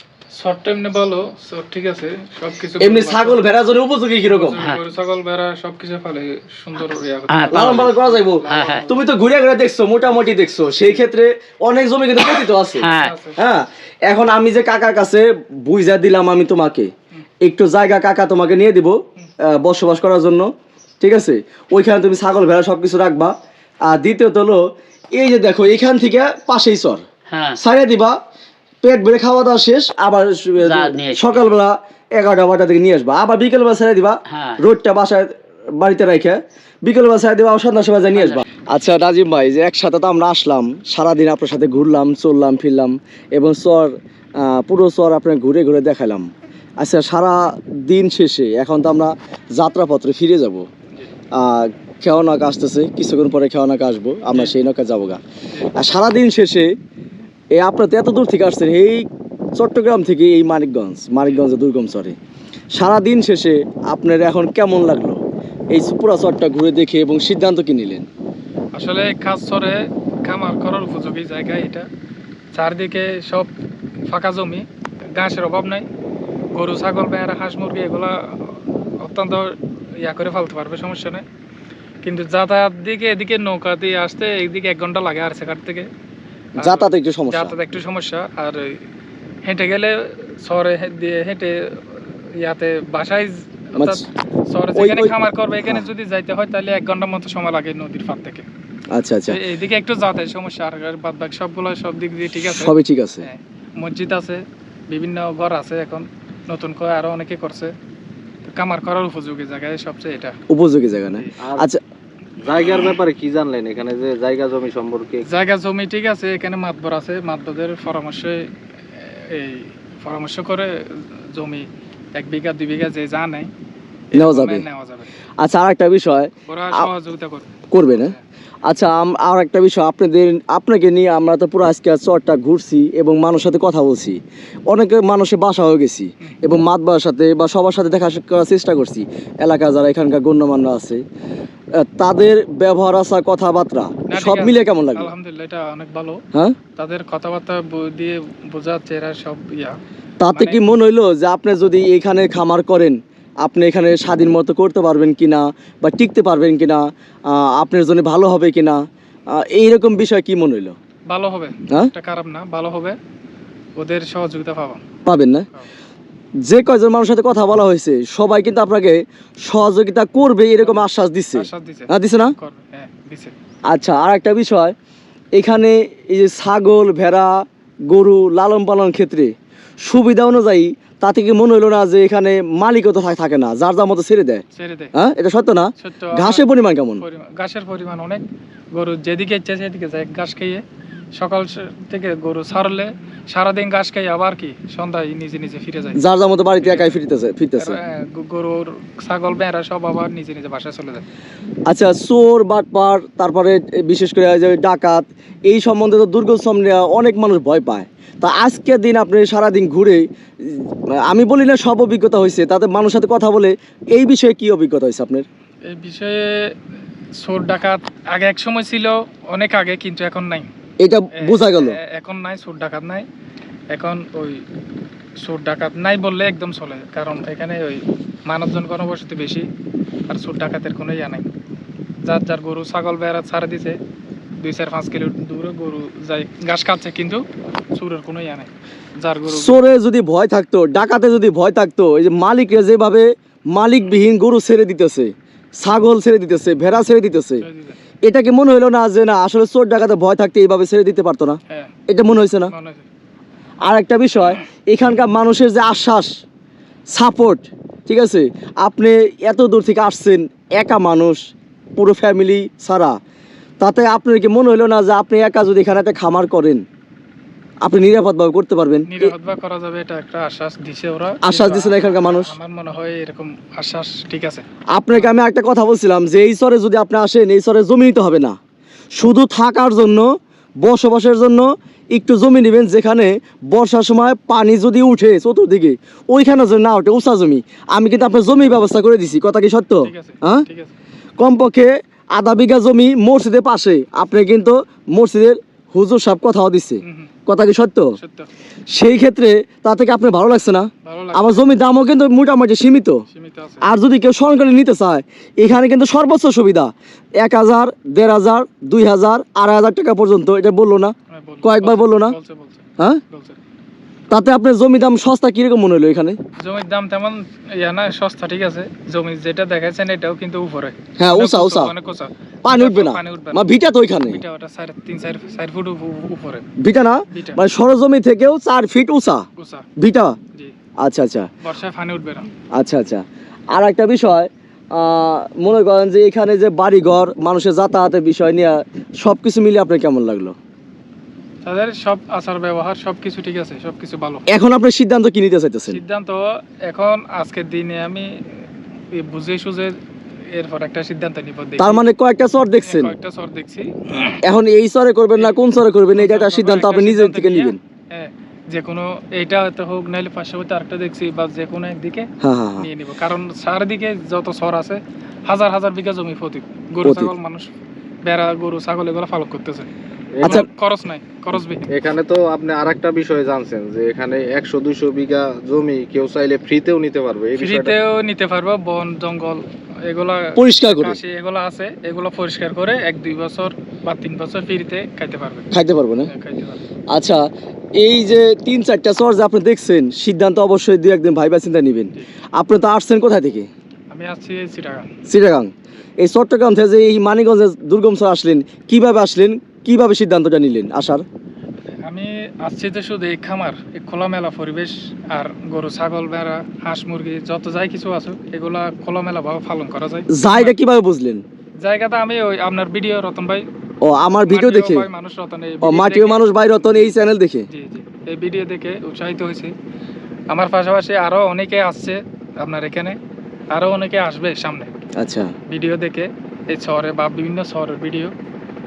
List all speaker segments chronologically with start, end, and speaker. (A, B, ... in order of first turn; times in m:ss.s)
0:00.4-0:03.4 A
0:02.8-0:04.6 B
0:04.2-0:09.0 A
0:04.6-0:04.8 C
0:07.3-0:07.9 C
0:07.5-0:16.9 B
0:08.4-0:08.9 C
0:12.8-0:13.2 C
0:13.0-0:13.4 A
0:17.4-0:20.5 B
0:21.0-0:23.3 B
0:23.9-0:24.6 B
0:25.2-0:27.0 B
0:27.3-0:27.6 C
0:27.6-0:28.2 B
0:28.8-0:50.7 B
0:30.6-0:31.6 C
0:34.3-0:34.6 C
0:38.2-0:38.4 C
0:51.4-0:55.2 B
0:55.8-0:56.7 B
0:57.6-1:02.2 B
1:02.7-1:05.2 B
1:05.7-1:08.1 B
1:08.8-1:11.9 A
1:12.6-1:13.5 A
1:14.1-1:14.6 A
1:15.2-1:15.8 A
1:16.6-1:21.2 A
1:22.0-1:25.9 A
1:26.6-1:27.5 B
1:26.6-1:28.7 A
1:29.5-1:31.6 A
1:32.4-1:38.5 A
1:33.8-1:34.0 B
1:34.8-1:35.9 B
1:38.9-1:39.4 B
1:39.3-1:47.7 A
1:42.4-1:43.3 B
1:48.6-1:50.4 A
1:50.5-1:51.8 B
1:51.4-1:51.7 D
1:52.4-1:55.2 D
1:55.2-1:58.4 A
1:59.3-2:00.8 A
2:01.4-2:03.5 A
2:04.2-2:04.6 B
2:04.2-2:05.1 A
2:05.4-2:06.9 B
2:06.5-2:08.2 A
2:07.7-2:08.2 B
2:08.7-2:21.0 B
2:21.8-2:25.1 B
2:24.1-2:26.2 A
2:26.8-2:29.8 A
2:30.2-2:40.8 B
2:30.3-2:30.6 A
2:41.1-2:43.0 A
2:43.8-2:44.8 A
2:45.1-2:45.5 B
2:46.4-2:52.3 B
2:50.6-2:53.3 A
2:53.7-2:54.8 B
2:55.4-3:07.0 B
3:04.5-3:04.9 A
3:05.8-3:06.4 A
3:07.0-3:08.2 A
3:08.8-3:10.6 A
3:11.2-3:16.0 A
3:16.0-3:17.8 B
3:16.6-3:17.0 A
3:17.6-3:21.0 A
3:21.7-3:35.3 B
3:35.7-3:36.5 A
3:37.2-3:40.5 A
3:40.8-3:41.8 B
3:41.2-3:43.1 A
3:43.7-3:44.4 A
3:45.2-3:49.5 A
3:50.1-3:51.2 A
3:52.1-3:53.8 A
3:54.4-3:57.2 A
3:57.8-3:58.5 A
3:59.0-3:59.6 A
3:59.3-4:07.4 B
4:07.4-4:07.8 A
4:08.0-4:12.5 B
4:12.5-4:12.9 A
4:13.6-4:16.1 B
4:16.9-4:21.2 B
4:21.8-4:23.0 B
4:23.6-4:26.6 B
4:27.6-4:29.1 B
4:28.9-4:35.1 A
4:31.2-4:32.3 B
4:34.7-4:38.4 B
4:39.0-4:40.1 B
4:40.6-4:50.4 B
4:49.8-4:50.7 A
4:51.2-4:58.0 B
4:56.8-4:57.1 A
4:58.0-4:58.3 A
4:58.7-5:03.0 B
5:00.8-5:01.5 A
5:03.1-5:03.6 A
5:03.6-5:12.2 B
5:11.1-5:13.4 A
5:14.1-5:16.2 B
5:16.4-5:23.4 A
5:21.0-5:21.7 B
5:22.4-5:24.2 B
5:24.0-5:26.5 A
5:26.6-5:29.3 B
5:27.1-5:27.4 A
5:29.4-5:29.7 A
5:29.8-5:30.2 B
5:30.8-5:31.3 B
5:31.4-5:32.3 A
5:32.6-5:40.4 B
5:41.4-5:44.3 A
5:44.3-5:45.8 B
5:45.7-5:48.1 A
5:49.0-5:49.8 A
5:50.3-5:51.8 A
5:51.6-5:53.0 B
5:52.6-5:54.2 A
5:54.2-5:57.6 B
5:56.0-6:02.1 A
6:02.2-6:02.7 B
6:02.6-6:07.5 A
6:06.8-6:07.1 B
6:08.1-6:09.7 A
6:10.2-6:10.4 D
6:10.2-6:11.7 A
6:11.7-6:17.8 D
6:17.4-6:25.5 A
6:20.4-6:21.0 B
6:25.5-6:26.1 B
6:26.1-6:26.6 A
6:26.9-6:27.3 B
6:27.8-6:33.5 B
6:33.9-6:34.9 A
6:35.1-6:41.0 B
6:41.8-6:50.5 A
6:50.1-6:51.2 B
6:51.6-6:53.5 A
6:53.8-6:54.9 B
6:54.3-6:56.2 A
6:55.6-6:57.5 B
6:57.5-6:59.5 A
7:00.3-7:03.0 A
7:03.5-7:04.7 A
7:05.0-7:05.3 B
7:05.5-7:08.1 A